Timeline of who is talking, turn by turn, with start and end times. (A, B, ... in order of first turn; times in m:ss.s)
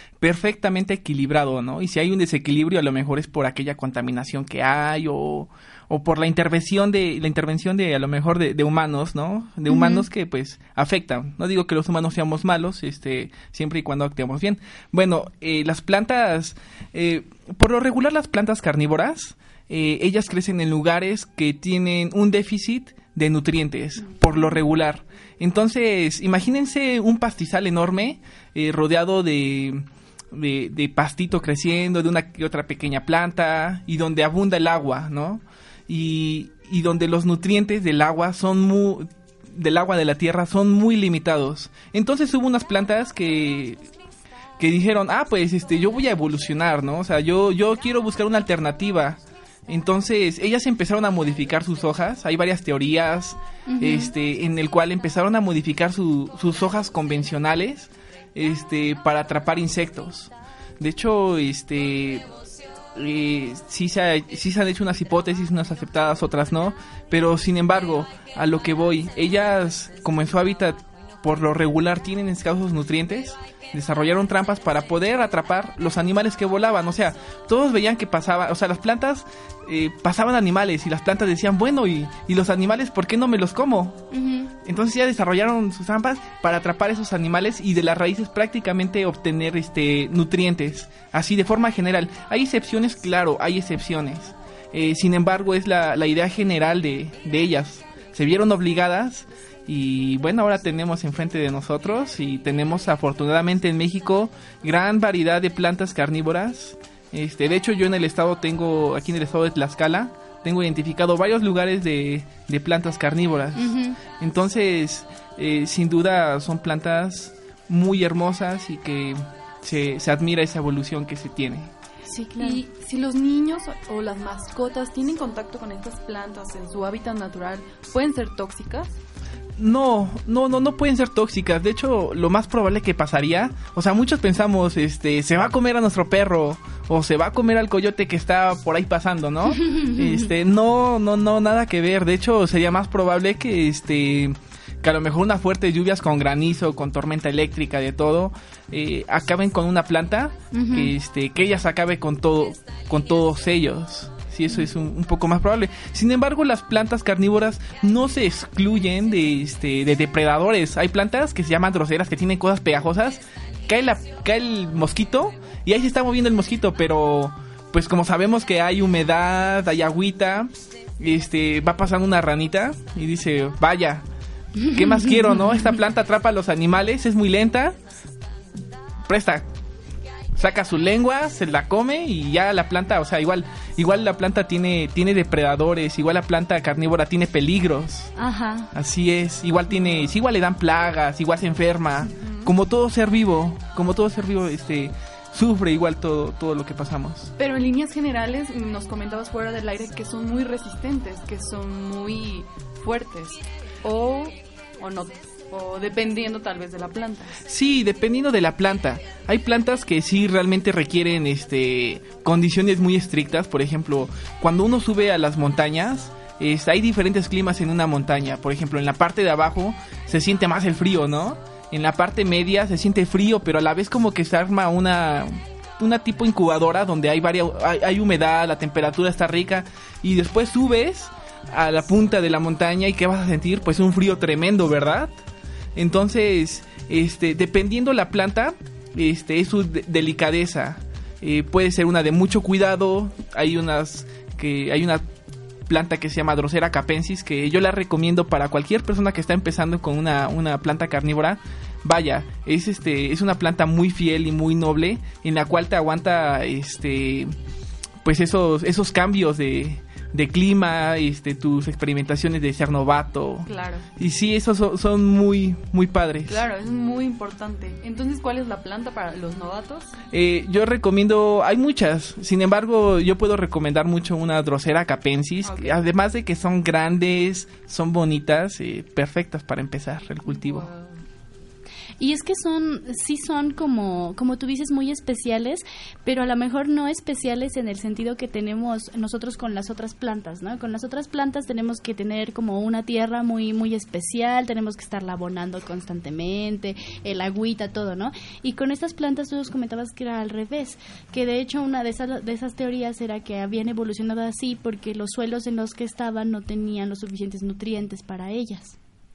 0:00.2-0:43.8 A
0:09.7-0:10.0 B
0:44.6-1:02.2 A
0:53.7-0:54.1 B
1:02.9-1:24.1 A
1:24.1-1:24.5 B
1:24.6-2:01.7 A
1:53.6-1:54.0 B
2:02.0-2:02.6 B
2:02.4-2:08.9 C
2:09.6-2:54.0 A
2:19.5-2:20.3 B
2:30.5-2:30.9 B
2:54.6-2:55.6 B
2:54.7-2:57.8 A
2:59.0-2:59.4 A
3:00.4-3:08.1 A
3:08.2-3:08.7 B
3:08.7-3:17.3 A
3:12.2-3:12.5 C
3:17.4-3:27.4 C
3:27.5-3:55.1 A
3:55.8-4:05.0 A
4:05.7-4:17.3 A
4:18.0-4:26.4 A
4:23.4-4:23.9 C
4:26.3-4:30.0 C
4:30.1-4:40.7 A
4:35.4-4:35.8 C
4:40.3-4:41.0 C
4:42.0-5:08.8 B